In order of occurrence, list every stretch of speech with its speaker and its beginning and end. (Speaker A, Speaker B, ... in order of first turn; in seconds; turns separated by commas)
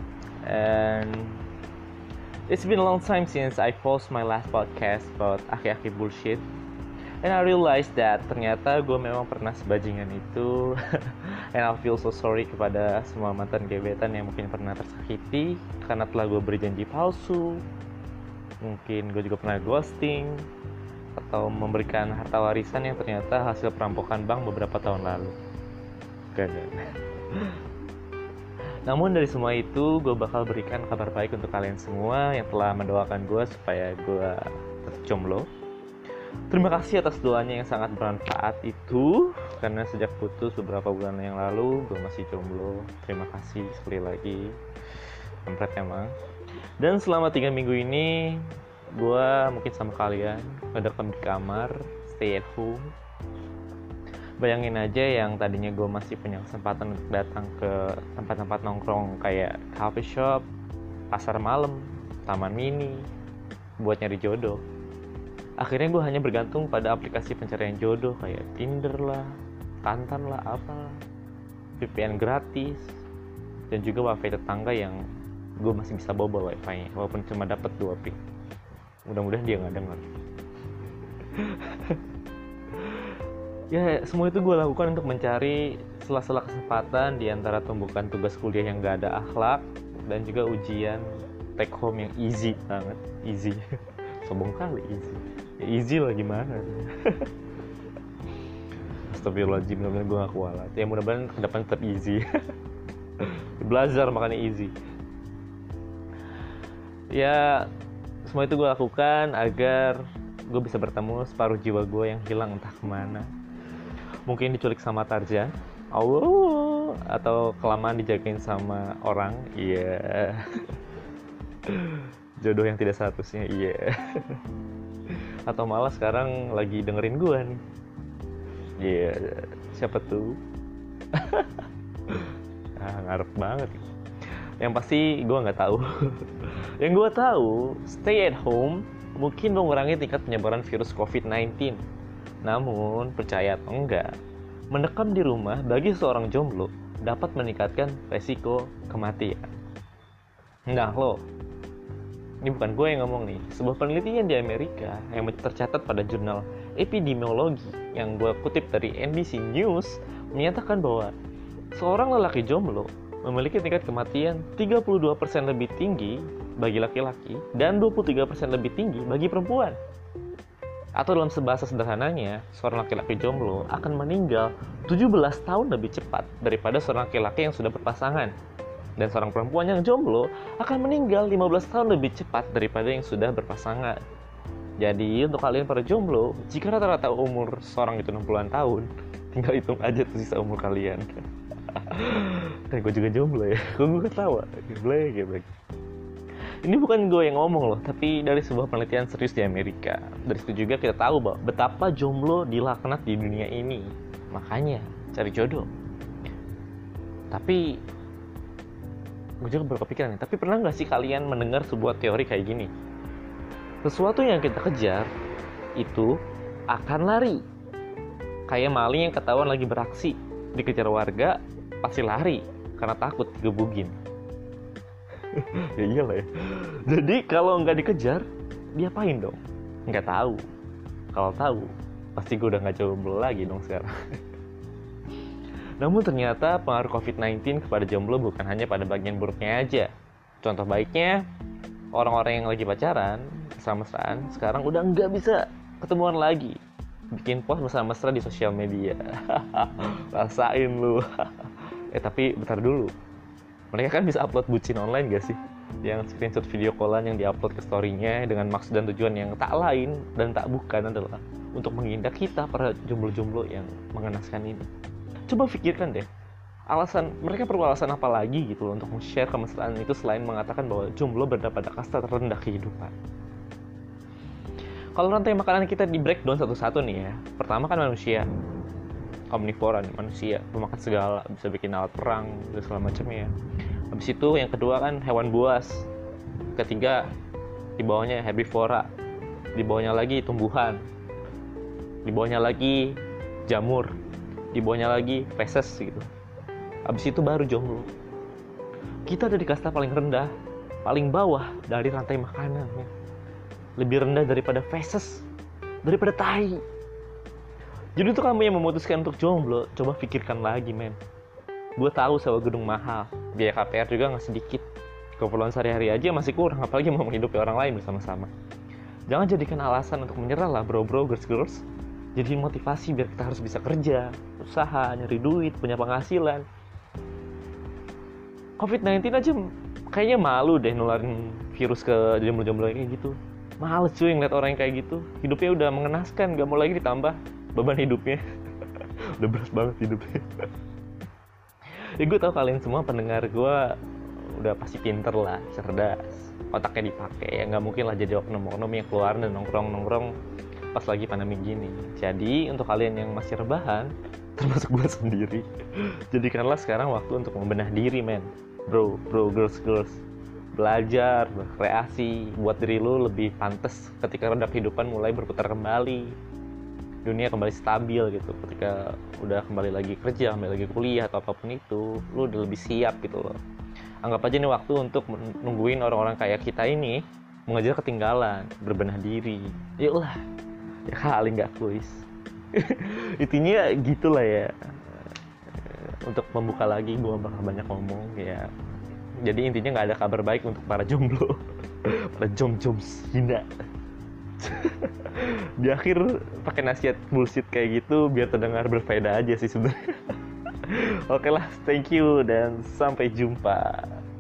Speaker A: 0.4-1.4, Speaker A: 2.5-6.5, Speaker A: 7.2-17.6, Speaker A: 18.6-20.5, Speaker A: 21.1-25.4, Speaker A: 26.3-27.6, Speaker A: 28.9-35.5, Speaker A: 36.5-44.6, Speaker A: 45.5-46.1, Speaker A: 46.8-52.9, Speaker A: 54.4-60.5, Speaker A: 61.1-63.1, Speaker A: 63.8-64.6, Speaker A: 65.6-71.0, Speaker A: 71.8-73.0, Speaker A: 73.7-75.0, Speaker A: 75.6-78.2, Speaker A: 79.1-80.0, Speaker A: 81.2-82.0, Speaker A: 82.7-83.2, Speaker A: 83.7-93.7, Speaker A: 94.2-97.3, Speaker A: 99.1-102.2, Speaker A: 103.2-104.7, Speaker A: 107.1-107.7, Speaker A: 108.3-113.3, Speaker A: 114.3-120.8, Speaker A: 121.6-124.4, Speaker A: 125.1-127.6, Speaker A: 128.8-130.4, Speaker A: 131.1-133.9, Speaker A: 134.6-141.8, Speaker A: 142.4-144.2, Speaker A: 144.7-149.5, Speaker A: 150.7-151.2, Speaker A: 152.4-161.2, Speaker A: 161.7-169.8, Speaker A: 171.0-178.3, Speaker A: 179.0-184.0, Speaker A: 184.8-195.6, Speaker A: 196.6-205.7, Speaker A: 207.3-207.8, Speaker A: 209.4-212.7, Speaker A: 213.8-215.1, Speaker A: 215.8-216.1, Speaker A: 216.7-217.4, Speaker A: 218.5-224.0, Speaker A: 225.2-230.4, Speaker A: 231.1-233.9, Speaker A: 235.8-239.9, Speaker A: 240.4-241.2, Speaker A: 241.9-246.6, Speaker A: 247.1-252.9, Speaker A: 253.7-264.7, Speaker A: 265.3-266.1, Speaker A: 266.7-272.9, Speaker A: 275.0-278.3, Speaker A: 279.3-283.3, Speaker A: 283.9-285.9, Speaker A: 286.6-287.1, Speaker A: 287.8-288.9, Speaker A: 289.6-290.8, Speaker A: 292.1-293.9, Speaker A: 294.5-296.1, Speaker A: 296.9-297.9, Speaker A: 299.1-300.3, Speaker A: 300.8-302.9, Speaker A: 303.8-305.3, Speaker A: 305.8-306.6, Speaker A: 308.0-311.0, Speaker A: 311.8-314.6, Speaker A: 315.2-318.3, Speaker A: 319.1-321.6, Speaker A: 322.2-326.5, Speaker A: 328.6-340.5, Speaker A: 342.0-343.8, Speaker A: 344.3-350.1, Speaker A: 350.7-360.0, Speaker A: 360.5-366.2, Speaker A: 367.1-373.4, Speaker A: 374.0-380.2, Speaker A: 380.9-388.5, Speaker A: 389.2-393.5, Speaker A: 394.4-404.0